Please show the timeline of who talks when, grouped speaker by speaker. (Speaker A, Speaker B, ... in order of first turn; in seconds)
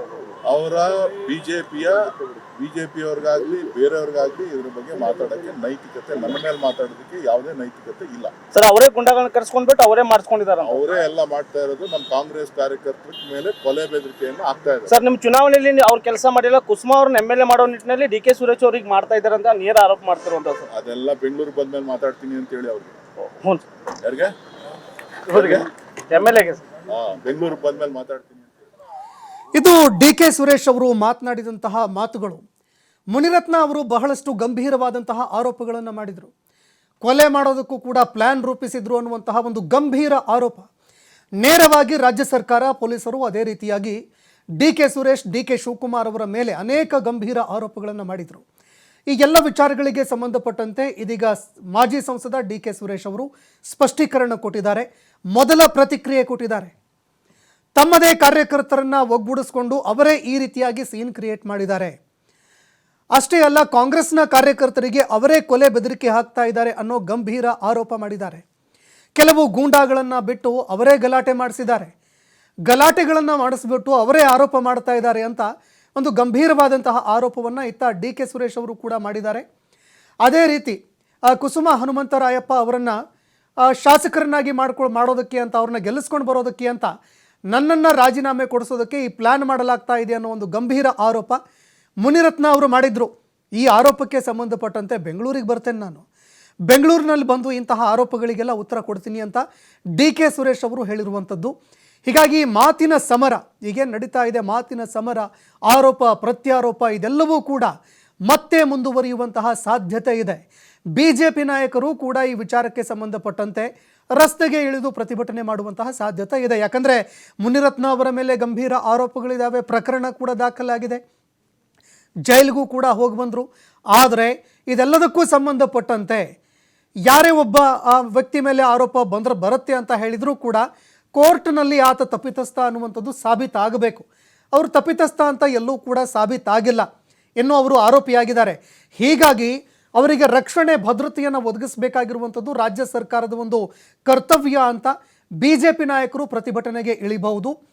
Speaker A: 0.5-8.3, 10.6-15.0, 20.7-22.9, 24.0-24.3, 25.3-25.7, 26.9-28.5
Speaker B: 8.5-10.8, 14.9-20.7, 23.2-23.6, 25.3-26.6
Speaker C: 29.5-32.4, 33.1-36.3, 37.0-40.7, 41.4-44.0, 44.6-48.4, 49.1-56.7, 57.8-61.9, 63.1-68.4, 69.2-71.9, 72.7-79.4, 80.2-80.8, 81.3-82.9, 83.7-86.9, 87.5-91.4, 92.0-96.0, 96.7-99.4, 100.0-101.5, 102.0-107.7, 108.3-121.0, 122.2-126.2, 127.0-130.6, 131.1-136.9, 137.4-147.5